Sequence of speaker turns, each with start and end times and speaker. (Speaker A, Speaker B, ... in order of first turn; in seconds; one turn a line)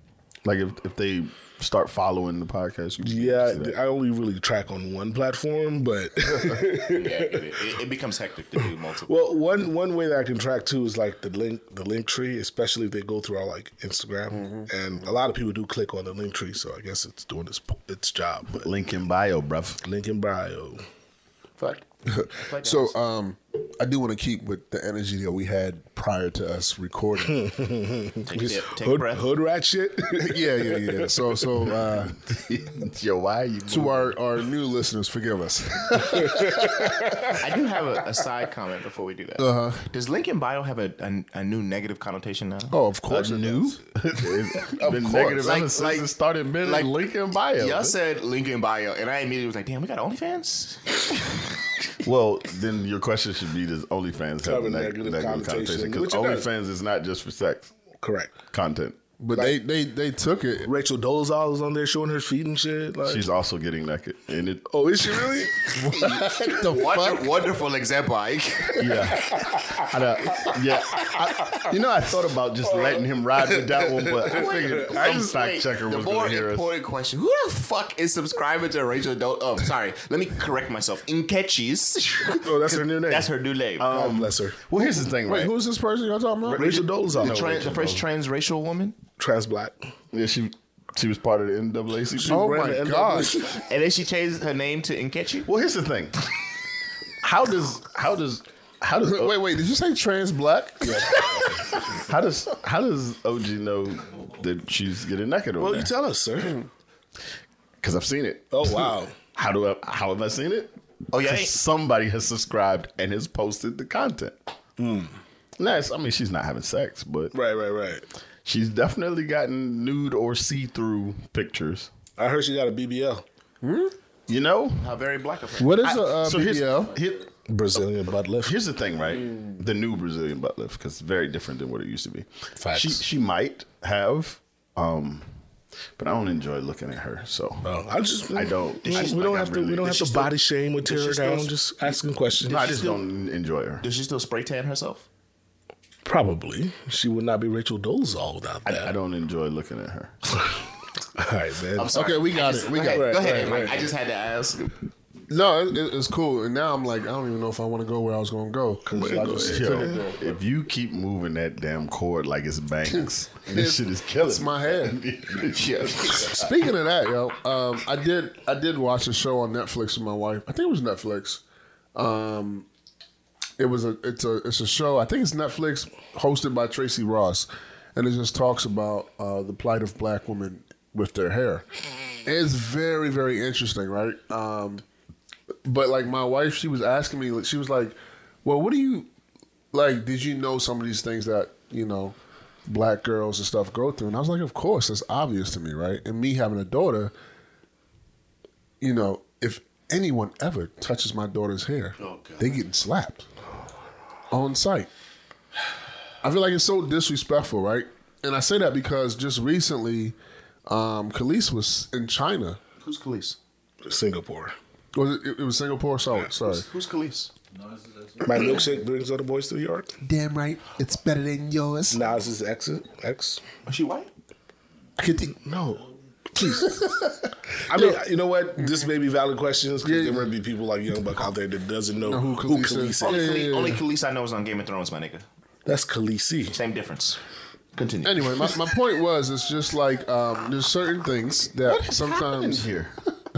Speaker A: 0.4-3.8
Speaker B: 3.0-7.5
Speaker C: 6.6-9.2
Speaker B: 9.1-18.6
Speaker D: 14.3-14.7
Speaker A: 18.5-19.8
Speaker B: 19.8-20.8
Speaker C: 21.6-22.9
Speaker D: 22.1-27.4
Speaker B: 27.2-31.7
Speaker C: 28.2-29.3
Speaker D: 30.2-32.2
Speaker A: 32.1-34.1
Speaker D: 33.7-37.1
Speaker B: 36.2-37.2
Speaker C: 37.3-42.8
Speaker D: 39.4-39.9
Speaker D: 42.7-43.8
Speaker A: 43.1-48.0
Speaker B: 44.6-45.6
Speaker C: 45.4-46.1
Speaker C: 46.6-47.0
Speaker C: 47.5-51.4
Speaker A: 52.0-57.7
Speaker B: 54.4-56.5
Speaker B: 58.0-58.3
Speaker A: 58.5-59.0
Speaker D: 59.2-60.7
Speaker B: 60.6-63.3
Speaker A: 63.0-65.5
Speaker B: 64.7-65.7
Speaker C: 65.8-69.4
Speaker D: 65.8-67.2
Speaker A: 68.7-76.7
Speaker B: 72.7-75.3
Speaker C: 74.3-83.9
Speaker B: 82.2-83.3
Speaker A: 83.8-85.5
Speaker B: 83.9-84.6
Speaker D: 85.2-86.6
Speaker A: 86.4-88.0
Speaker B: 86.5-87.6
Speaker C: 86.7-89.0
Speaker B: 89.2-89.8
Speaker A: 90.1-92.5
Speaker B: 92.1-93.5
Speaker D: 92.3-93.5
Speaker C: 93.5-95.5
Speaker A: 95.4-96.2
Speaker A: 97.2-99.4
Speaker D: 99.0-101.4
Speaker B: 100.8-101.6
Speaker A: 101.9-105.9
Speaker B: 105.6-106.6
Speaker A: 107.8-114.3
Speaker B: 108.5-109.1
Speaker C: 111.1-111.5
Speaker B: 114.8-115.2
Speaker A: 115.6-117.3
Speaker B: 117.3-118.0
Speaker A: 118.4-121.9
Speaker B: 122.2-123.2
Speaker D: 123.6-123.9
Speaker A: 124.3-124.9
Speaker C: 124.8-125.9
Speaker D: 125.6-127.0
Speaker A: 125.8-127.3
Speaker B: 127.5-128.6
Speaker A: 128.4-135.2
Speaker B: 132.6-133.0
Speaker A: 136.0-137.7
Speaker B: 137.6-142.8
Speaker A: 138.3-140.3
Speaker A: 140.8-141.5
Speaker C: 140.9-141.4
Speaker C: 142.4-143.0
Speaker A: 142.4-143.8
Speaker C: 143.8-145.1
Speaker B: 146.0-148.9
Speaker A: 148.6-150.1
Speaker B: 151.1-152.0
Speaker C: 151.8-154.7
Speaker D: 151.9-153.3
Speaker B: 152.8-153.9
Speaker D: 155.3-160.4
Speaker B: 158.9-160.0
Speaker A: 159.2-166.4
Speaker D: 162.9-165.0
Speaker C: 165.5-166.2
Speaker D: 166.1-171.4
Speaker D: 171.9-172.7
Speaker D: 173.6-181.6
Speaker D: 182.2-184.8
Speaker D: 185.6-189.1
Speaker D: 189.7-192.1
Speaker D: 192.7-197.1
Speaker D: 198.8-203.3
Speaker C: 202.0-202.4
Speaker D: 204.3-204.9
Speaker D: 206.2-210.2
Speaker D: 210.7-212.6
Speaker C: 212.8-213.4
Speaker B: 213.8-214.6
Speaker D: 214.9-216.6
Speaker C: 216.4-217.3
Speaker B: 218.2-219.9
Speaker D: 220.0-222.0
Speaker B: 221.9-223.4
Speaker C: 223.7-224.1
Speaker D: 225.0-225.4
Speaker B: 225.4-225.8
Speaker D: 226.3-228.0
Speaker B: 226.4-226.6
Speaker B: 227.7-233.3
Speaker D: 228.6-228.9
Speaker D: 229.8-230.3
Speaker D: 232.0-233.8
Speaker C: 233.0-235.2
Speaker B: 235.7-236.6
Speaker C: 236.5-237.2
Speaker C: 237.8-238.5
Speaker D: 238.0-242.7
Speaker A: 241.7-242.9